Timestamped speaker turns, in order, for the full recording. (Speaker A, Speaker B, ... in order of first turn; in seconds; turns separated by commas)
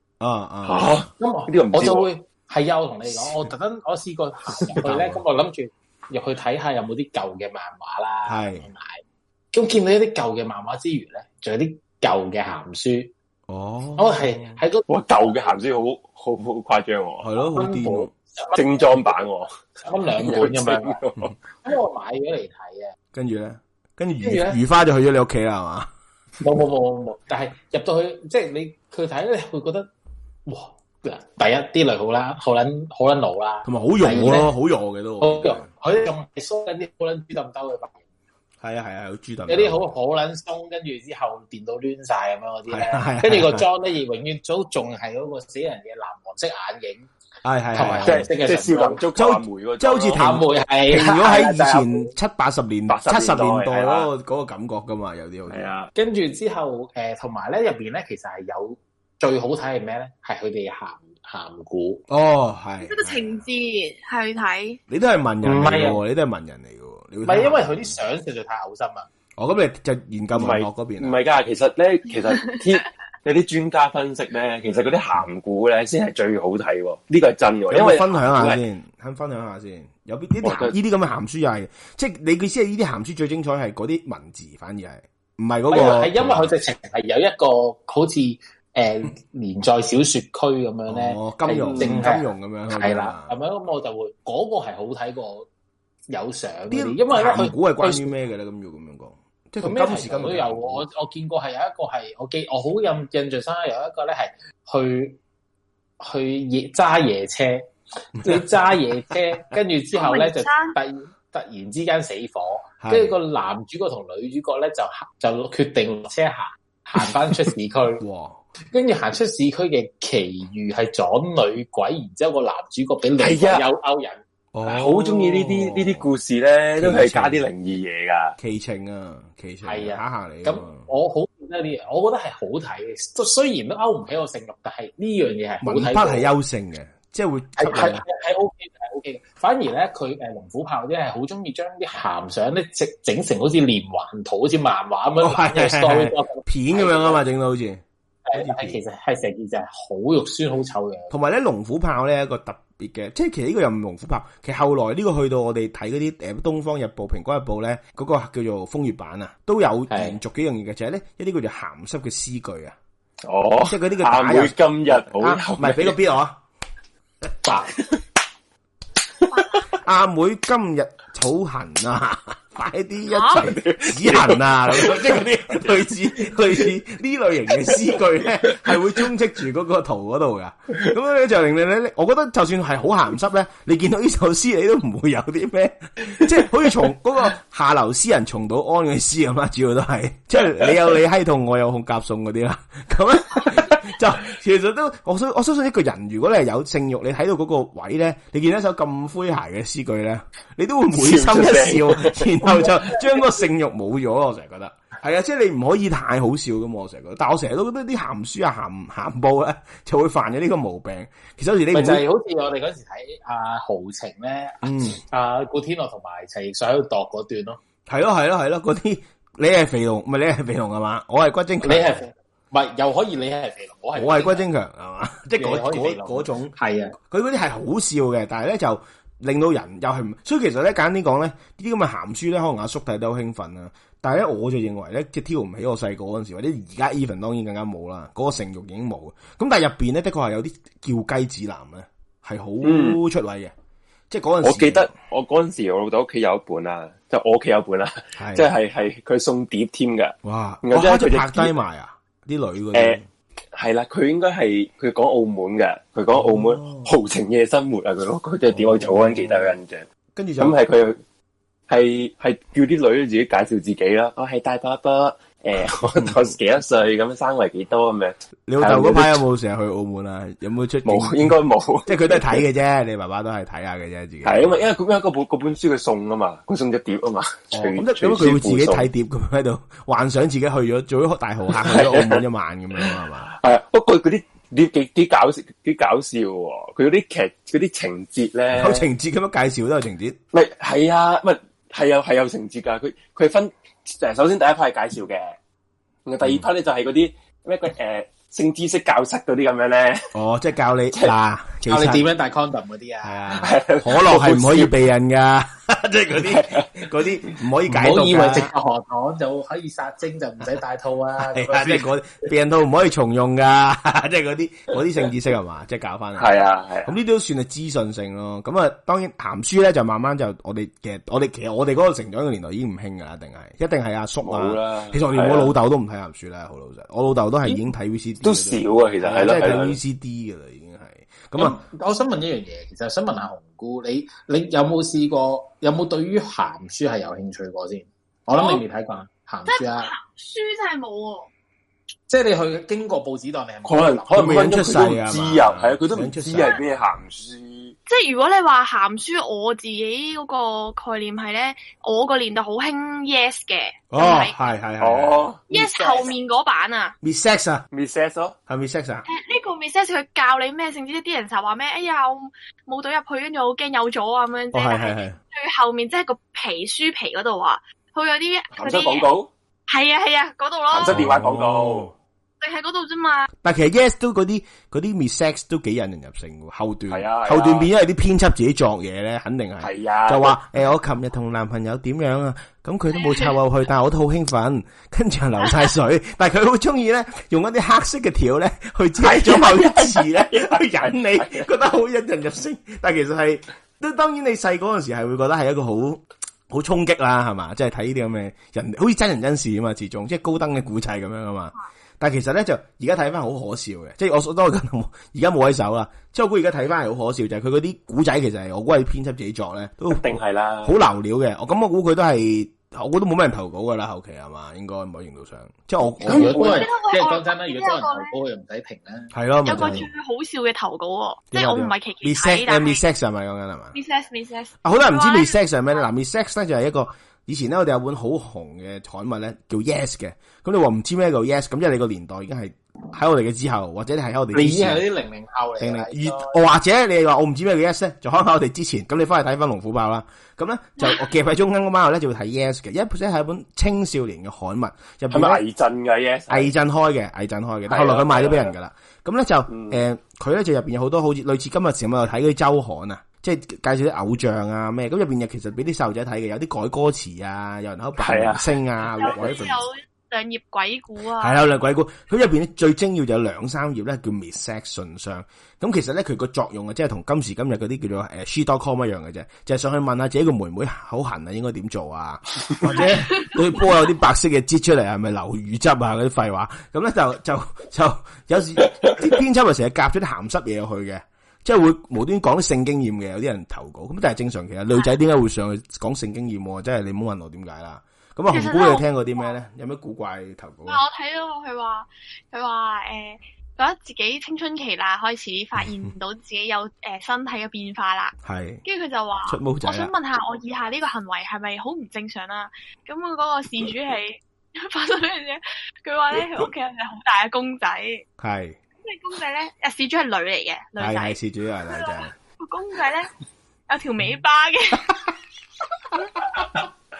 Speaker A: 0.2-0.9, Speaker B: 0.6-2.1, Speaker C: 1.2-13.1, Speaker A: 4.8-5.2, Speaker A: 8.2-8.7, Speaker A: 13.5-14.6, Speaker C: 14.0-15.5, Speaker B: 14.9-17.3, Speaker A: 17.2-18.1, Speaker C: 17.5-19.1, Speaker B: 18.5-19.5, Speaker C: 19.8-21.0, Speaker B: 20.2-21.3, Speaker C: 21.6-22.9, Speaker A: 23.1-25.9, Speaker C: 24.2-24.6, Speaker C: 26.4-29.9, Speaker C: 30.4-34.5, Speaker A: 33.6-35.7, Speaker C: 35.2-38.0, Speaker A: 38.6-39.9, Speaker C: 39.5-47.1, Speaker A: 42.7-43.6, Speaker A: 47.4-48.2, Speaker C: 47.7-49.0, Speaker B: 48.0-50.3, Speaker A: 49.1-55.7, Speaker C: 50.2-52.1, Speaker B: 52.9-54.1, Speaker B: 55.5-55.9, Speaker C: 55.9-62.0, Speaker A: 62.1-63.4, Speaker D: 62.8-64.8, Speaker A: 64.9-68.0, Speaker C: 65.4-66.0, Speaker C: 67.2-69.1, Speaker A: 69.4-71.2, Speaker B: 70.3-78.6, Speaker A: 77.7-86.5, Speaker B: 80.4-80.7, Speaker C: 85.7-95.5, Speaker A: 90.9-93.3, Speaker B: 91.6-92.1, Speaker C: 96.1-98.1, Speaker A: 96.7-100.8, Speaker C: 99.6-105.2, Speaker C: 106.0-118.0, Speaker A: 108.2-108.5, Speaker D: 109.9-110.8, Speaker A: 112.8-113.1, Speaker A: 118.0-118.4, Speaker C: 118.7-124.2, Speaker B: 123.2-123.6, Speaker A: 124.5-126.1, Speaker B: 124.6-128.3, Speaker A: 126.8-127.5, Speaker A: 128.4-130.9, Speaker C: 129.6-136.3, Speaker A: 135.6-138.0, Speaker C: 137.6-147.2, Speaker A: 145.2-147.8, Speaker C: 148.2-151.1, Speaker A: 148.3-148.8, Speaker A: 151.1-162.8, Speaker C: 159.9-160.2, Speaker B: 163.3-166.0, Speaker A: 163.6-166.4, Speaker C: 167.4-167.7, Speaker D: 169.3-169.7, Speaker A: 169.8-212.0, Speaker D: 173.1-173.4, Speaker B: 173.3-175.8, Speaker B: 177.7-178.0, Speaker B: 200.9-202.7, Speaker C: 211.7-217.6, Speaker A: 214.6-215.0, Speaker A: 217.9-222.0, Speaker C: 221.6-224.4, Speaker A: 223.9-243.5, Speaker C: 225.4-226.9, Speaker B: 242.6-243.0, Speaker A: 244.1-244.9, Speaker B: 244.4-251.6, Speaker A: 248.2-248.5, Speaker A: 250.2-253.1, Speaker B: 253.5-259.9, Speaker A: 256.1-256.9, Speaker A: 258.5-259.6, Speaker A: 260.1-260.6, Speaker B: 260.4-261.0, Speaker B: 261.7-269.2, Speaker A: 268.5-274.6, Speaker B: 270.8-272.4, Speaker B: 274.2-278.9, Speaker A: 277.5-283.3, Speaker B: 281.5-282.2, Speaker B: 282.8-288.9, Speaker A: 288.5-290.2, Speaker B: 290.3-295.4, Speaker B: 296.1-300.1, Speaker A: 300.1-302.1, Speaker C: 301.7-303.5, Speaker A: 303.0-308.5, Speaker B: 303.4-304.7, Speaker B: 306.2-306.9, Speaker C: 307.7-311.9, Speaker A: 311.2-331.6, Speaker B: 316.2-316.9, Speaker B: 324.2-325.5, Speaker B: 328.2-329.8, Speaker C: 331.4-339.9, Speaker D: 338.3-338.6, Speaker D: 339.4-341.3, Speaker C: 342.1-344.5, Speaker B: 343.6-347.8, Speaker A: 344.1-347.0, Speaker D: 347.9-354.4, Speaker A: 353.9-355.3, Speaker B: 354.8-355.4, Speaker C: 355.5-356.1, Speaker D: 355.5-356.9, Speaker A: 357.0-357.6, Speaker B: 357.7-358.4, Speaker A: 358.5-359.1, Speaker D: 359.1-369.1, Speaker A: 364.5-365.2, Speaker B: 368.5-369.3, Speaker D: 369.7-371.0, Speaker B: 370.7-371.9, Speaker A: 370.9-371.9, Speaker D: 372.4-373.3, Speaker A: 373.4-416.6, Speaker B: 376.9-377.7, Speaker B: 379.6-380.4, Speaker B: 389.0-391.5, Speaker B: 409.9-410.8, Speaker C: 416.0-419.1, Speaker D: 416.2-418.1, Speaker A: 419.1-419.9, Speaker D: 419.4-422.8, Speaker A: 421.3-423.8, Speaker D: 423.7-425.8, Speaker A: 424.6-434.8, Speaker C: 434.3-436.4, Speaker A: 435.6-445.4, Speaker B: 445.1-446.5, Speaker A: 446.3-459.7, Speaker B: 447.7-448.5, Speaker B: 449.5-449.8, Speaker B: 458.0-458.6, Speaker D: 458.9-461.4, Speaker A: 461.2-490.8, Speaker D: 472.7-473.3, Speaker D: 488.3-489.3, Speaker D: 490.7-508.0, Speaker A: 498.2-498.6, Speaker A: 499.2-499.9, Speaker A: 508.2-508.6, Speaker D: 508.8-511.2, Speaker A: 510.8-512.1, Speaker D: 511.7-513.1, Speaker D: 513.7-515.1, Speaker A: 515.9-516.6